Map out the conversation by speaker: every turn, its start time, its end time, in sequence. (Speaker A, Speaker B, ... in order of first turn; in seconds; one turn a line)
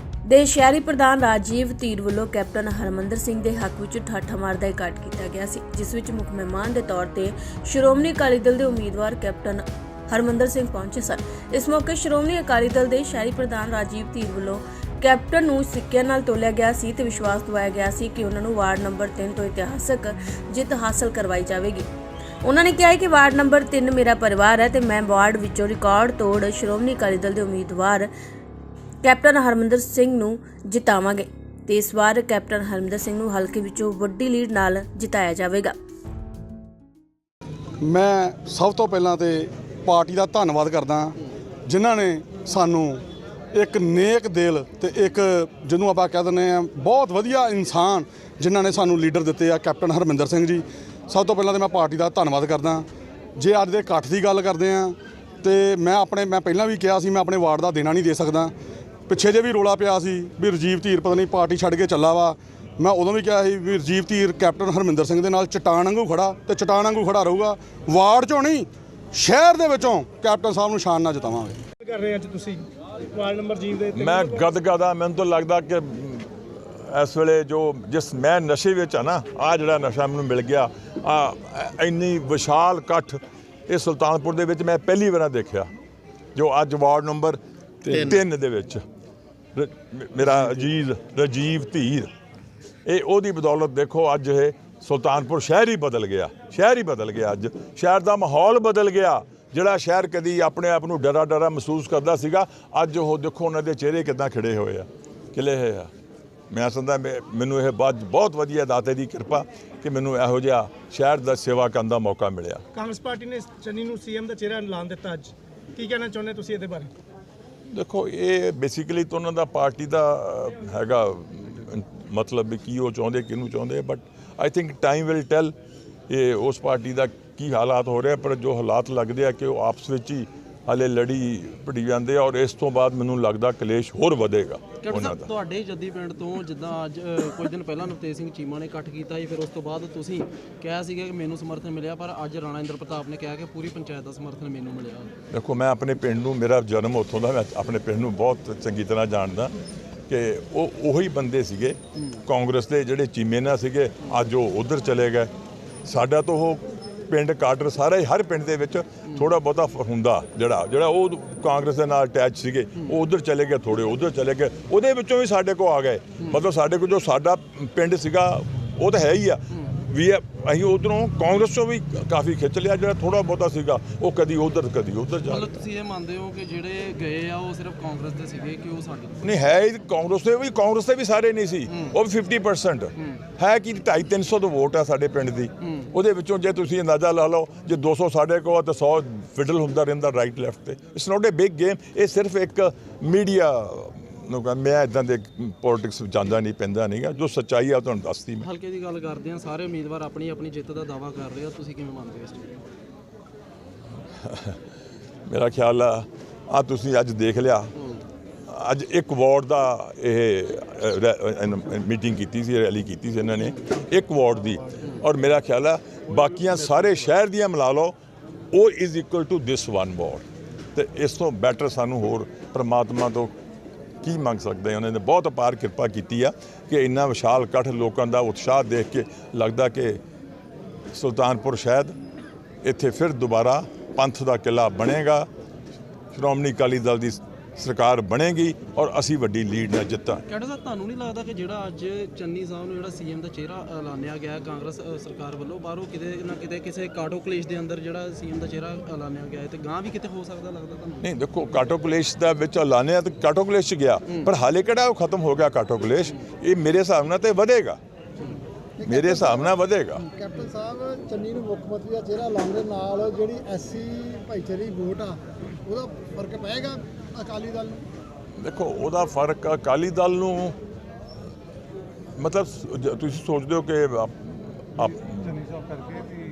Speaker A: 0.3-21.9
Speaker A: 22.4-28.1
Speaker A: 29.0-35.7
Speaker B: 37.8-41.2
Speaker B: 41.7-43.0
Speaker B: 43.5-58.5
Speaker B: 59.1-71.6
Speaker C: 71.8-72.6
Speaker C: 73.2-74.4
Speaker D: 74.0-85.7
Speaker D: 86.3-88.8
Speaker D: 89.5-92.1
Speaker D: 92.9-105.9
Speaker D: 106.5-112.6
Speaker C: 112.8-116.9
Speaker D: 117.7-125.5
Speaker D: 126.1-135.3
Speaker E: 134.8-145.1
Speaker D: 145.3-149.6
Speaker D: 150.1-155.3
Speaker D: 155.8-175.5
Speaker E: 175.3-179.2
Speaker D: 179.2-198.5
Speaker E: 198.4-202.6
Speaker D: 204.2-204.6
Speaker D: 205.3-207.7
Speaker D: 208.5-218.0
Speaker D: 218.5-223.3
Speaker D: 224.0-230.0
Speaker D: 230.9-231.9
Speaker D: 232.6-235.3
Speaker D: 236.1-240.2
Speaker E: 240.3-251.1
Speaker D: 251.0-257.8
Speaker F: 258.8-259.4
Speaker D: 258.8-260.0
Speaker F: 260.1-267.9
Speaker D: 268.4-270.6
Speaker D: 272.2-275.5